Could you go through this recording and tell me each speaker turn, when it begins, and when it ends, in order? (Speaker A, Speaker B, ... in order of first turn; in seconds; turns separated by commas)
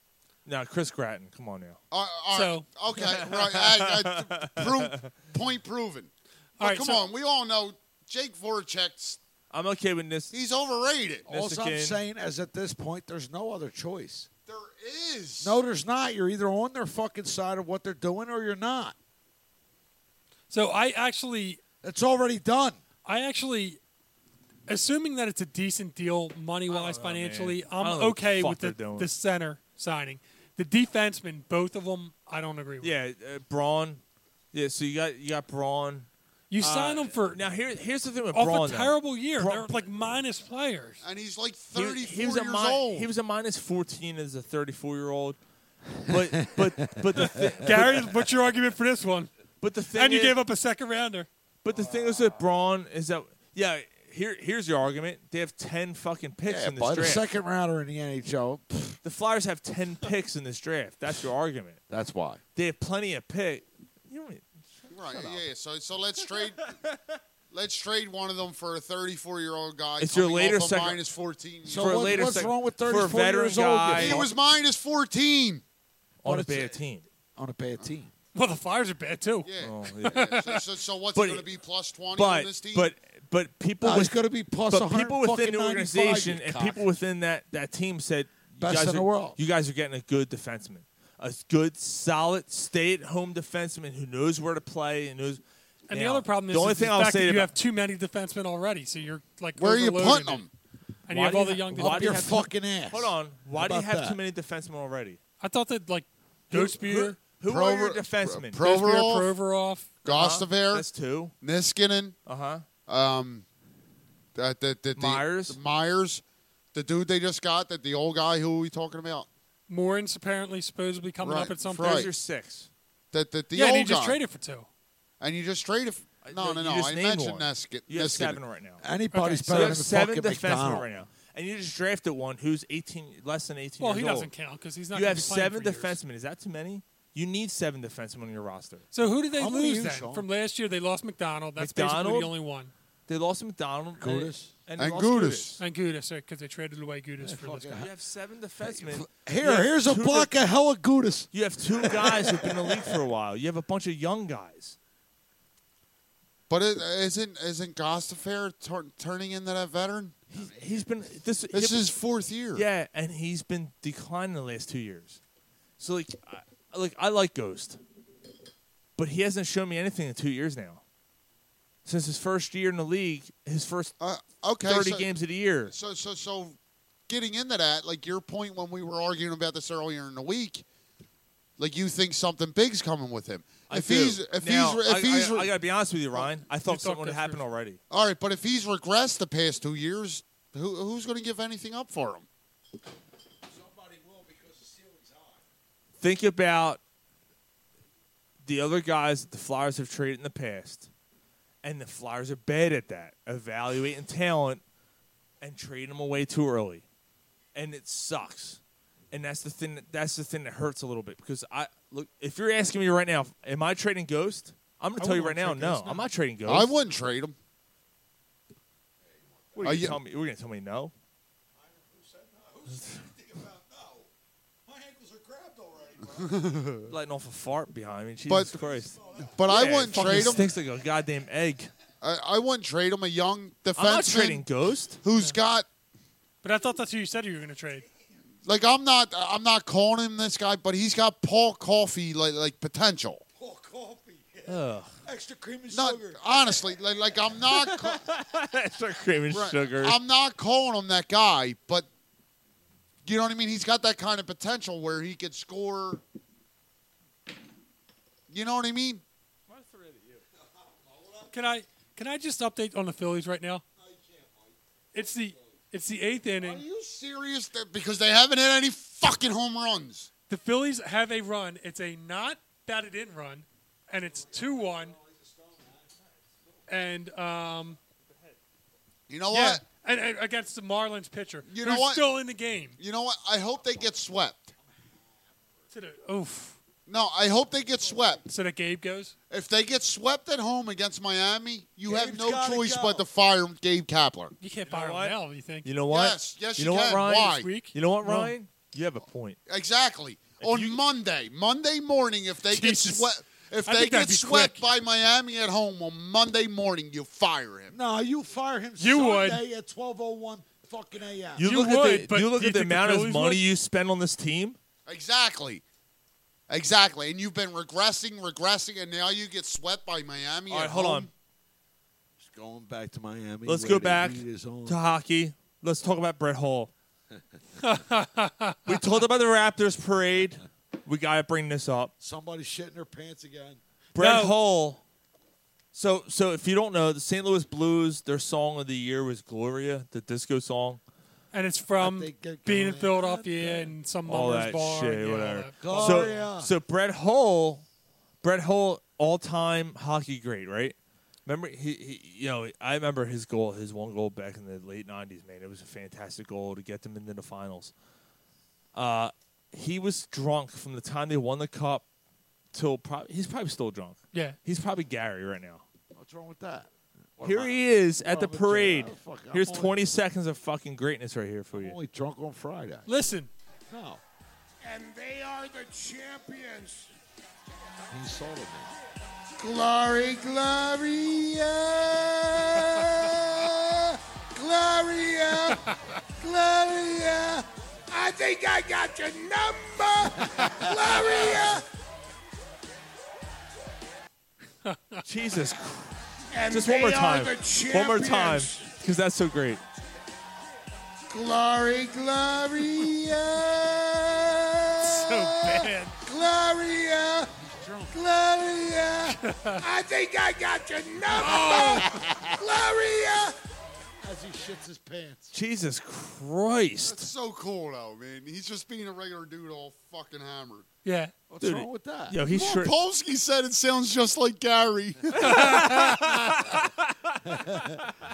Speaker A: 0.5-1.8, Speaker B: 1.9-9.2, Speaker C: 2.3-2.6, Speaker A: 2.9-5.1, Speaker C: 6.6-7.0, Speaker A: 9.5-10.3, Speaker B: 10.3-11.2, Speaker D: 11.2-14.3, Speaker A: 11.3-12.0, Speaker B: 14.5-15.6, Speaker D: 15.4-18.9, Speaker C: 20.5-21.6, Speaker D: 21.8-22.8, Speaker C: 23.0-23.8, Speaker C: 24.7-32.9, Speaker A: 26.7-29.1, Speaker A: 32.8-34.0, Speaker A: 34.5-36.1, Speaker C: 36.5-37.4, Speaker A: 36.6-39.8, Speaker C: 38.3-41.0, Speaker B: 41.0-43.1, Speaker A: 41.7-45.4, Speaker A: 46.0-48.1, Speaker D: 46.0-48.0, Speaker C: 47.6-49.3, Speaker A: 49.6-50.4, Speaker C: 49.9-51.3, Speaker A: 51.6-57.3, Speaker D: 51.7-52.4, Speaker D: 56.4-59.0, Speaker A: 59.0-61.8, Speaker D: 61.9-62.4, Speaker A: 62.5-65.3, Speaker B: 64.9-66.8, Speaker B: 67.5-72.4, Speaker A: 70.0-71.0, Speaker D: 71.6-74.3, Speaker A: 71.8-74.3, Speaker B: 73.9-75.6, Speaker A: 76.2-77.0, Speaker D: 76.2-76.8, Speaker D: 77.3-78.1, Speaker C: 78.3-79.5, Speaker B: 79.4-82.9, Speaker A: 79.6-80.3, Speaker C: 80.1-80.6, Speaker A: 81.1-81.5, Speaker A: 82.1-97.5, Speaker D: 83.8-86.8, Speaker D: 88.6-89.4, Speaker C: 95.9-100.4, Speaker B: 99.6-100.5, Speaker C: 101.1-102.3, Speaker A: 101.1-105.2, Speaker D: 101.8-104.2, Speaker C: 105.4-107.2, Speaker A: 106.5-108.6, Speaker B: 107.4-109.3, Speaker C: 108.6-109.9, Speaker B: 110.0-110.9, Speaker A: 110.0-111.3, Speaker B: 111.4-112.2, Speaker A: 112.2-112.6, Speaker B: 112.8-113.5, Speaker B: 114.3-116.2, Speaker A: 114.9-115.6, Speaker B: 116.7-119.3, Speaker C: 119.7-122.0, Speaker B: 121.2-122.1, Speaker A: 121.7-122.7, Speaker B: 123.1-124.2, Speaker C: 123.5-124.7, Speaker B: 125.2-128.4, Speaker A: 126.2-128.8, Speaker D: 128.8-130.9, Speaker C: 129.1-129.8, Speaker A: 129.5-134.3, Speaker C: 133.8-136.0, Speaker A: 134.9-138.8, Speaker C: 138.9-142.7, Speaker D: 139.3-140.2, Speaker A: 141.6-142.3, Speaker A: 143.1-145.6, Speaker D: 144.0-144.5, Speaker B: 144.8-145.6, Speaker C: 145.6-147.8, Speaker D: 147.2-147.9, Speaker A: 147.8-150.3, Speaker D: 148.6-153.0, Speaker A: 151.3-154.8, Speaker B: 156.5-160.2, Speaker D: 160.3-161.1, Speaker A: 160.3-161.9, Speaker B: 161.5-162.7, Speaker A: 162.5-165.2, Speaker A: 165.8-167.8, Speaker A: 169.0-170.8, Speaker A: 171.8-173.9, Speaker B: 174.0-175.1, Speaker A: 174.6-175.7, Speaker B: 175.7-180.6, Speaker B: 181.6-185.5, Speaker A: 183.7-187.8, Speaker C: 186.6-187.4, Speaker B: 187.9-192.3, Speaker D: 193.4-195.4, Speaker A: 196.0-196.8, Speaker A: 198.4-200.9, Speaker A: 201.6-204.6, Speaker A: 205.4-206.8, Speaker A: 207.5-216.7, Speaker C: 215.0-216.1, Speaker B: 216.4-217.3, Speaker D: 219.0-219.8, Speaker A: 219.5-220.9, Speaker B: 219.6-220.0, Speaker D: 221.6-224.1, Speaker D: 224.7-226.4, Speaker B: 226.2-226.9, Speaker A: 226.9-231.7, Speaker B: 228.3-228.6, Speaker D: 228.5-230.6, Speaker B: 229.2-230.5, Speaker B: 232.0-234.5, Speaker A: 233.8-235.0, Speaker B: 235.0-235.7, Speaker C: 236.4-237.8, Speaker B: 238.4-243.2, Speaker D: 243.3-246.9, Speaker A: 244.5-244.9, Speaker B: 245.7-248.0, Speaker A: 247.7-250.0, Speaker B: 249.3-251.9, Speaker B: 253.0-256.0, Speaker B: 258.3-259.0, Speaker A: 259.5-260.2, Speaker D: 260.3-261.4, Speaker C: 261.3-263.6, Speaker D: 263.8-265.6, Speaker C: 264.9-266.6, Speaker D: 266.4-266.9, Speaker B: 266.8-270.1, Speaker C: 270.3-275.0, Speaker D: 273.9-276.6, Speaker C: 276.7-277.8, Speaker B: 279.1-279.6, Speaker C: 279.3-282.8, Speaker B: 281.5-282.1, Speaker B: 282.8-284.5, Speaker D: 283.6-284.0, Speaker D: 284.6-285.7, Speaker C: 285.7-286.6, Speaker B: 286.9-288.2, Speaker D: 287.7-288.2, Speaker C: 288.2-289.1, Speaker B: 289.3-294.4, Speaker D: 291.8-293.1, Speaker C: 294.4-295.7, Speaker A: 294.7-299.4, Speaker B: 295.9-297.5, Speaker C: 297.3-298.3, Speaker B: 299.5-307.8, Speaker A: 300.4-300.8, Speaker C: 302.5-303.1, Speaker C: 303.6-304.6, Speaker D: 307.7-311.5, Speaker C: 308.8-309.4, Speaker A: 311.4-314.6, Speaker C: 311.4-313.4, Speaker B: 314.9-315.6, Speaker B: 316.5-321.1, Speaker A: 320.5-321.1, Speaker D: 322.2-324.8, Speaker A: 323.4-326.7, Speaker C: 327.6-328.8, Speaker A: 328.6-331.9, Speaker D: 332.0-333.6, Speaker C: 333.9-334.4, Speaker A: 333.9-334.8, Speaker A: 335.7-340.8, Speaker C: 341.3-346.3, Speaker D: 341.8-343.7, Speaker A: 344.1-347.6, Speaker D: 345.6-346.5, Speaker A: 348.2-357.7, Speaker A: 358.7-361.8, Speaker A: 362.5-365.6, Speaker D: 365.9-369.7, Speaker A: 367.2-371.8, Speaker D: 371.5-372.9, Speaker C: 372.9-373.3, Speaker D: 373.7-374.0, Speaker E: 374.6-376.9, Speaker D: 377.9-378.7, Speaker E: 379.4-385.6, Speaker C: 385.5-385.8, Speaker E: 386.2-391.6, Speaker C: 394.6-395.0, Speaker A: 395.0-399.6, Speaker E: 396.3-398.7, Speaker E: 401.1-407.3, Speaker C: 404.8-405.9, Speaker D: 407.4-408.0, Speaker E: 407.9-413.3, Speaker C: 409.2-409.6, Speaker C: 411.1-411.9, Speaker B: 411.8-412.3, Speaker D: 414.0-415.3, Speaker A: 415.3-417.1, Speaker B: 416.8-420.6, Speaker C: 420.8-421.1, Speaker D: 421.3-422.2, Speaker A: 421.4-422.8, Speaker B: 422.3-425.8, Speaker A: 425.2-427.9, Speaker C: 425.2-426.0, Speaker D: 427.2-427.8